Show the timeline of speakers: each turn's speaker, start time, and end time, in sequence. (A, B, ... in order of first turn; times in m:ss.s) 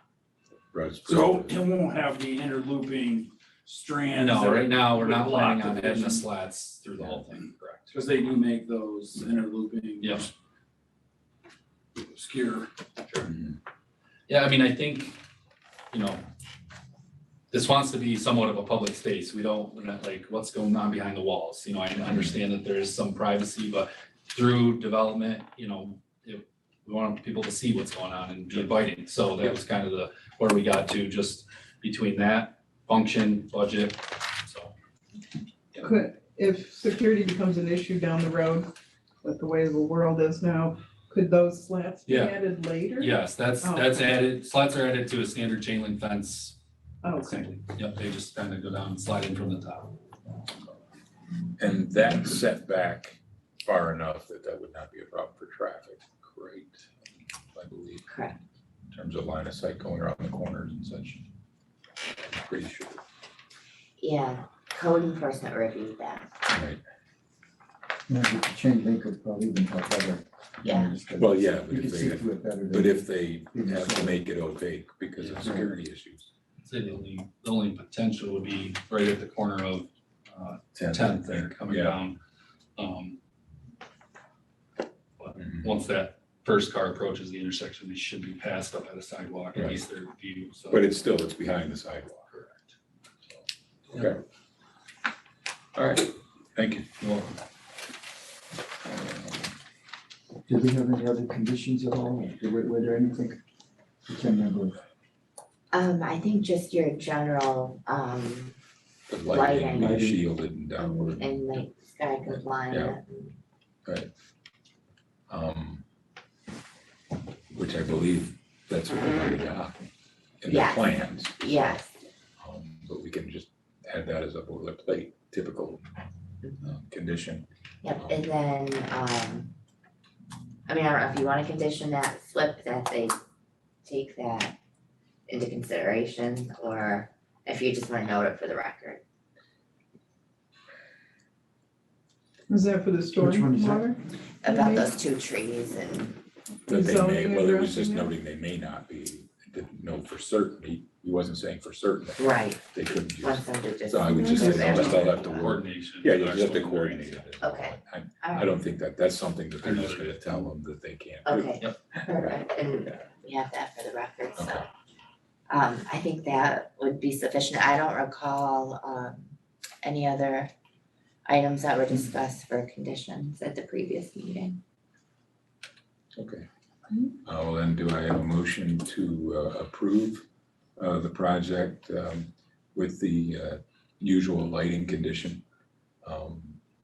0:00.7-0:01.5 A
0:01.0-0:06.2 B
0:04.2-0:07.9 C
0:07.0-0:07.2 A
0:07.9-0:10.3 B
0:10.0-0:10.3 C
0:12.0-0:12.7 B
0:13.0-0:13.3 C
0:13.2-0:13.6 A
0:14.3-0:15.2 C
0:15.9-0:16.2 C
0:17.5-0:34.7 C
0:22.0-0:22.4 A
0:28.5-0:28.8 A
0:35.8-0:38.7 D
0:39.2-0:44.1 D
0:42.1-0:42.4 C
0:43.0-0:46.6 C
0:47.0-0:47.6 D
0:47.2-0:49.9 C
0:51.6-0:58.1 A
0:58.1-0:58.4 E
0:58.9-1:01.2 A
1:02.2-1:03.0 A
1:04.0-1:06.3 E
1:06.5-1:06.8 A
1:08.1-1:14.2 F
1:10.6-1:11.0 E
1:11.0-1:16.3 A
1:15.2-1:15.5 C
1:15.4-1:15.7 F
1:16.6-1:22.2 C
1:20.7-1:22.0 A
1:22.8-1:23.2 C
1:25.2-1:30.9 C
1:25.4-1:25.7 A
1:29.5-1:29.8 A
1:30.7-1:32.2 A
1:32.3-1:32.7 C
1:33.9-1:34.2 A
1:35.7-1:36.9 A
1:37.0-1:37.3 C
1:40.5-1:43.4 F
1:44.1-1:44.8 F
1:45.7-1:48.6 E
1:49.1-1:51.6 A
1:49.3-1:50.0 E
1:49.7-1:50.2 F
1:50.8-1:53.4 E
1:52.2-1:53.0 A
1:55.3-1:55.8 A
1:57.5-1:59.9 A
2:00.4-2:01.8 A
2:00.4-2:01.9 E
2:02.4-2:05.8 A
2:06.6-2:07.5 A
2:07.8-2:09.5 E
2:10.7-2:13.1 E
2:13.8-2:14.6 E
2:15.3-2:19.0 E
2:22.5-2:24.9 D
2:23.2-2:23.8 F
2:24.4-2:26.2 E
2:26.7-2:42.4 A
2:26.7-2:28.1 D
2:32.2-2:32.6 E
2:33.1-2:35.6 E
2:34.3-2:37.3 C
2:37.4-2:38.5 E
2:39.6-2:40.2 C
2:41.2-2:44.7 E
2:44.4-2:44.6 A
2:45.5-2:50.5 E
2:51.2-2:54.6 E
2:56.1-2:56.4 A
2:57.2-3:00.2 A
3:00.8-3:05.4 A
3:06.0-3:06.6 A